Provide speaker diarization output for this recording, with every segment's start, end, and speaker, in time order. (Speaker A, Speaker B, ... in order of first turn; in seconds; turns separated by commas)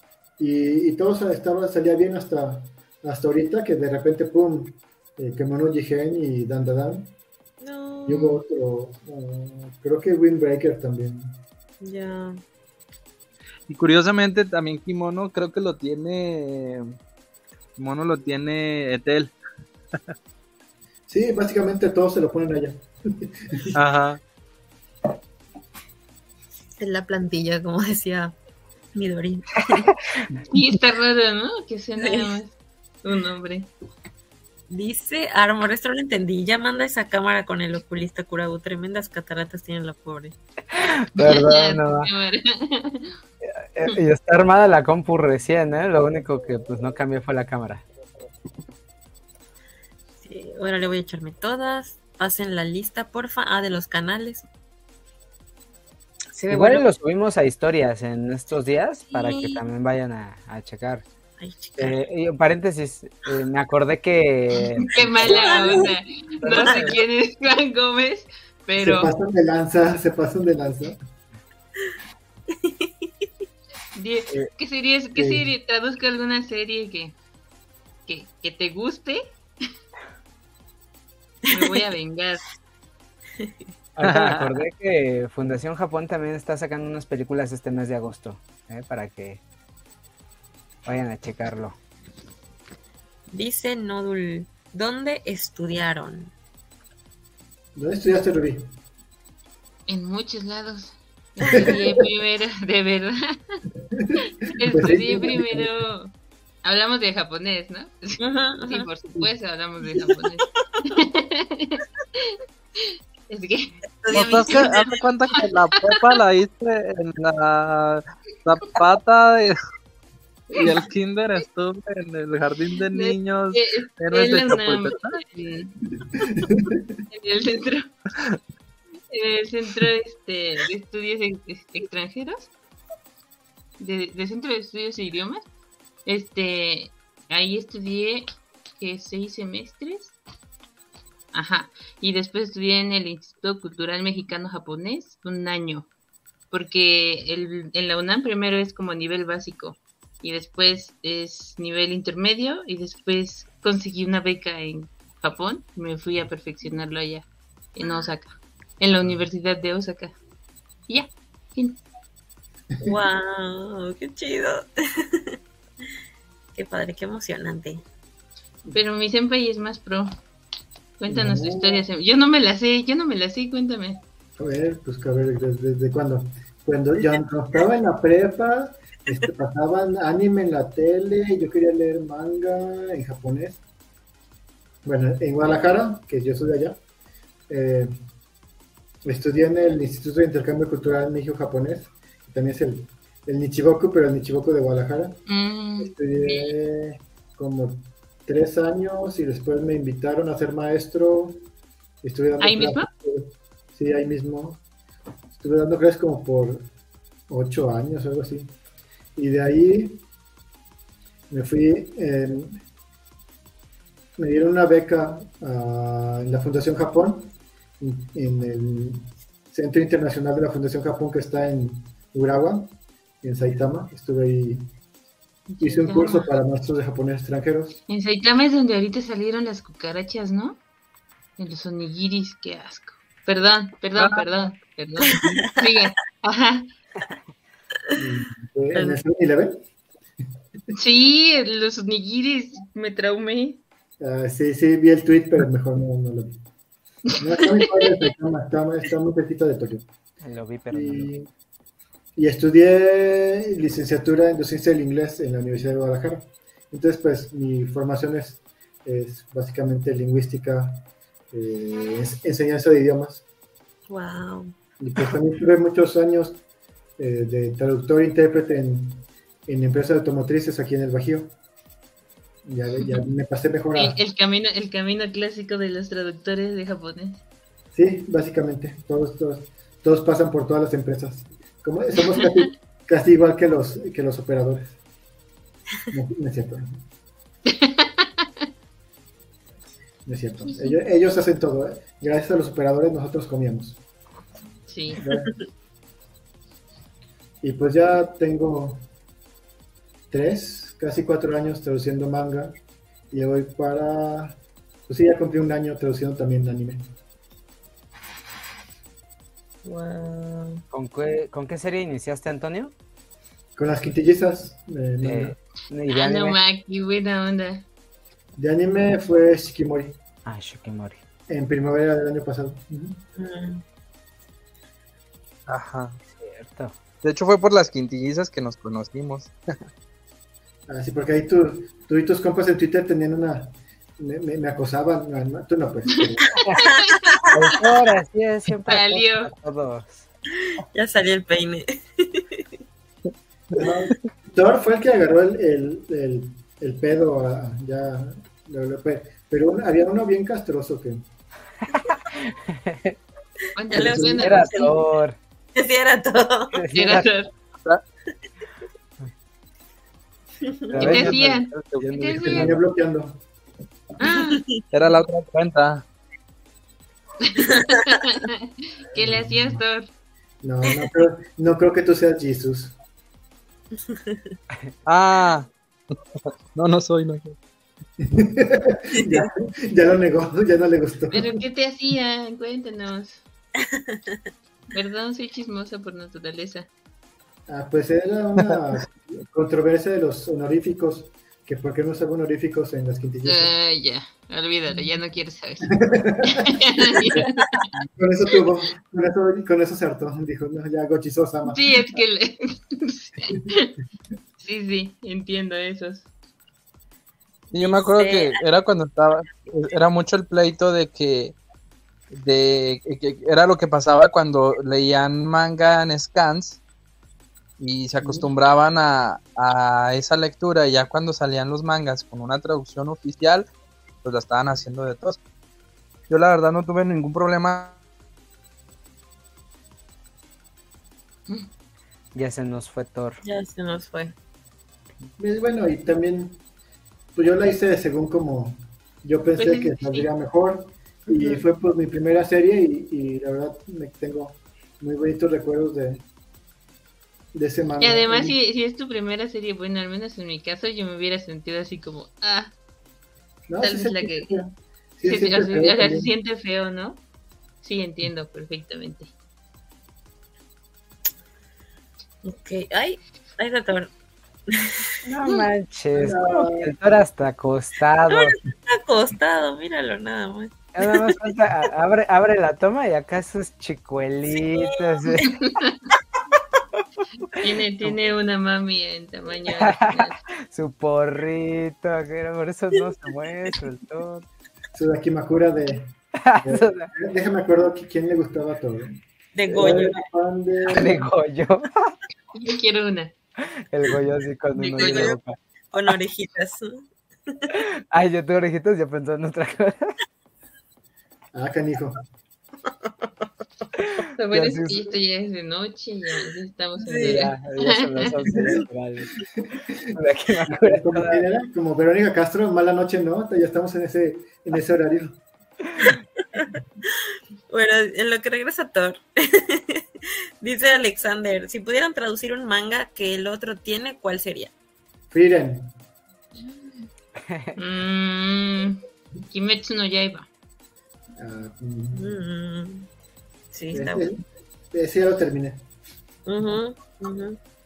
Speaker A: 0.4-7.1, Speaker B: 7.6-8.4, Speaker A: 8.1-11.4, Speaker B: 11.8-12.4, Speaker C: 13.7-16.9, Speaker C: 17.8-19.3, Speaker A: 21.1-23.8, Speaker C: 23.8-24.2, Speaker B: 26.8-28.4, Speaker B: 28.9-30.3, Speaker D: 30.5-33.7, Speaker B: 32.0-32.3, Speaker B: 34.7-40.4, Speaker E: 40.7-42.1, Speaker D: 41.2-43.1, Speaker E: 43.4-47.8, Speaker B: 50.2-54.5, Speaker B: 56.3-56.9, Speaker E: 56.5-61.0, Speaker B: 59.1-59.6, Speaker B: 61.4-62.0, Speaker E: 61.8-65.8, Speaker B: 64.8-65.9, Speaker D: 64.9-69.1, Speaker E: 66.5-67.0, Speaker B: 66.5-67.0, Speaker A: 68.8-71.0, Speaker B: 72.5-73.3, Speaker D: 74.0-77.2, Speaker A: 75.2-75.5, Speaker D: 78.1-79.2, Speaker D: 81.5-82.4, Speaker E: 84.0-89.4, Speaker C: 84.0-84.5, Speaker E: 90.8-91.8, Speaker B: 93.3-96.3, Speaker A: 97.8-98.7, Speaker D: 99.9-103.6, Speaker B: 101.4-101.7, Speaker A: 101.5-101.9, Speaker A: 103.9-105.7, Speaker D: 104.5-106.1, Speaker D: 106.6-114.9, Speaker B: 108.2-108.9, Speaker B: 114.0-115.0, Speaker C: 114.1-119.6, Speaker C: 120.5-125.2, Speaker D: 122.9-125.8, Speaker A: 126.0-126.9, Speaker D: 127.1-127.9, Speaker D: 129.1-132.5, Speaker D: 133.8-135.4, Speaker D: 136.1-138.3, Speaker D: 138.8-140.2, Speaker D: 141.3-145.9, Speaker D: 146.5-160.2, Speaker B: 157.8-158.1, Speaker D: 160.9-161.8, Speaker B: 162.8-165.4, Speaker B: 166.6-167.8, Speaker D: 168.7-170.2, Speaker D: 171.0-174.0, Speaker A: 171.1-171.8, Speaker A: 174.4-183.6, Speaker A: 184.8-186.8, Speaker A: 187.5-187.9, Speaker A: 189.1-195.3, Speaker D: 195.3-196.5, Speaker A: 195.8-201.5, Speaker A: 202.0-204.6, Speaker D: 202.4-202.9, Speaker A: 205.4-206.7, Speaker A: 207.3-208.5, Speaker A: 209.2-210.0, Speaker A: 211.3-212.6, Speaker A: 214.2-224.7, Speaker A: 225.6-227.8, Speaker D: 225.6-226.2, Speaker D: 227.9-230.6, Speaker D: 231.4-236.7, Speaker C: 234.0-234.3, Speaker B: 235.0-235.7, Speaker A: 237.9-239.6, Speaker B: 238.7-239.0, Speaker D: 240.8-243.6, Speaker A: 244.0-246.4, Speaker D: 247.1-247.6, Speaker A: 247.2-249.9, Speaker E: 250.2-251.1, Speaker A: 250.7-251.3, Speaker A: 252.2-263.2, Speaker B: 263.9-264.6, Speaker A: 264.8-266.4, Speaker A: 267.0-271.3, Speaker A: 272.4-274.0, Speaker D: 273.8-277.2, Speaker A: 277.7-284.8, Speaker A: 285.9-286.8, Speaker D: 287.5-288.3, Speaker A: 290.1-293.8, Speaker D: 290.5-290.8, Speaker D: 294.7-295.0, Speaker A: 294.9-295.3, Speaker B: 295.1-295.4, Speaker A: 297.4-298.9, Speaker A: 300.1-302.6, Speaker A: 303.1-306.8, Speaker B: 309.6-310.6, Speaker E: 310.7-312.7, Speaker A: 313.6-315.4, Speaker E: 315.0-316.4, Speaker D: 315.9-317.6, Speaker A: 318.4-320.0, Speaker E: 320.2-321.0, Speaker A: 321.3-323.0, Speaker B: 323.2-323.6, Speaker C: 325.5-326.0, Speaker E: 326.1-326.7, Speaker C: 327.0-329.3, Speaker A: 330.7-336.4, Speaker B: 336.5-337.6, Speaker D: 336.6-336.9, Speaker E: 337.3-340.1, Speaker D: 338.7-339.3, Speaker B: 340.4-342.5, Speaker A: 343.5-351.1, Speaker E: 351.7-353.0, Speaker D: 353.6-354.7, Speaker B: 353.7-354.7, Speaker E: 353.7-355.2, Speaker B: 355.6-356.6, Speaker E: 356.5-357.1, Speaker D: 356.7-357.3, Speaker B: 360.4-360.9, Speaker E: 360.7-362.6, Speaker C: 360.8-362.2, Speaker D: 360.8-362.6, Speaker A: 362.2-363.2, Speaker D: 364.0-364.4, Speaker B: 364.0-364.6, Speaker C: 364.7-365.9, Speaker D: 367.2-369.9, Speaker B: 367.5-368.0, Speaker A: 368.9-369.6, Speaker A: 370.4-372.8, Speaker B: 373.9-374.2, Speaker C: 374.9-375.5, Speaker C: 376.2-377.4, Speaker A: 378.0-381.4, Speaker B: 378.9-379.3, Speaker D: 381.1-383.2, Speaker B: 383.6-384.2, Speaker D: 384.7-386.7, Speaker A: 387.5-393.5, Speaker D: 393.2-397.7, Speaker A: 395.7-397.2, Speaker A: 398.0-402.0, Speaker D: 401.5-403.7, Speaker D: 404.4-406.1, Speaker C: 407.5-411.4, Speaker B: 407.6-408.4, Speaker C: 412.1-416.6, Speaker C: 417.6-423.5, Speaker A: 418.0-418.3, Speaker C: 424.0-425.2, Speaker C: 426.1-427.8, Speaker E: 432.1-433.2, Speaker B: 433.2-434.1, Speaker A: 435.2-436.4, Speaker A: 437.1-446.0, Speaker D: 439.4-440.1, Speaker B: 441.1-441.4, Speaker A: 447.3-448.4, Speaker D: 447.8-452.5, Speaker A: 453.5-456.1, Speaker D: 453.6-454.4, Speaker D: 455.1-457.0, Speaker D: 457.6-459.1, Speaker B: 462.2-463.9, Speaker B: 464.5-464.9, Speaker E: 465.1-468.4, Speaker A: 465.9-466.7, Speaker B: 468.1-471.1, Speaker E: 470.8-475.4, Speaker B: 474.3-475.3, Speaker D: 475.2-475.8, Speaker D: 477.4-480.2, Speaker E: 477.5-477.9, Speaker E: 479.6-484.3, Speaker A: 484.7-491.1, Speaker E: 486.1-486.9, Speaker B: 489.3-490.1, Speaker E: 490.7-492.0, Speaker D: 492.4-493.1, Speaker E: 493.4-495.4, Speaker D: 494.6-495.2, Speaker B: 494.8-495.2, Speaker B: 495.7-497.6, Speaker E: 497.5-499.9, Speaker A: 501.3-502.0, Speaker E: 503.8-504.9, Speaker D: 504.2-508.1, Speaker B: 506.8-507.3, Speaker E: 507.0-509.2, Speaker A: 509.5-515.2, Speaker E: 509.9-511.3, Speaker B: 516.9-519.8, Speaker B: 520.4-524.5, Speaker A: 525.1-525.8, Speaker E: 527.2-527.6, Speaker D: 527.6-530.3, Speaker A: 531.2-532.0, Speaker B: 531.9-532.9, Speaker B: 533.5-534.1, Speaker A: 533.7-535.6, Speaker B: 536.3-537.4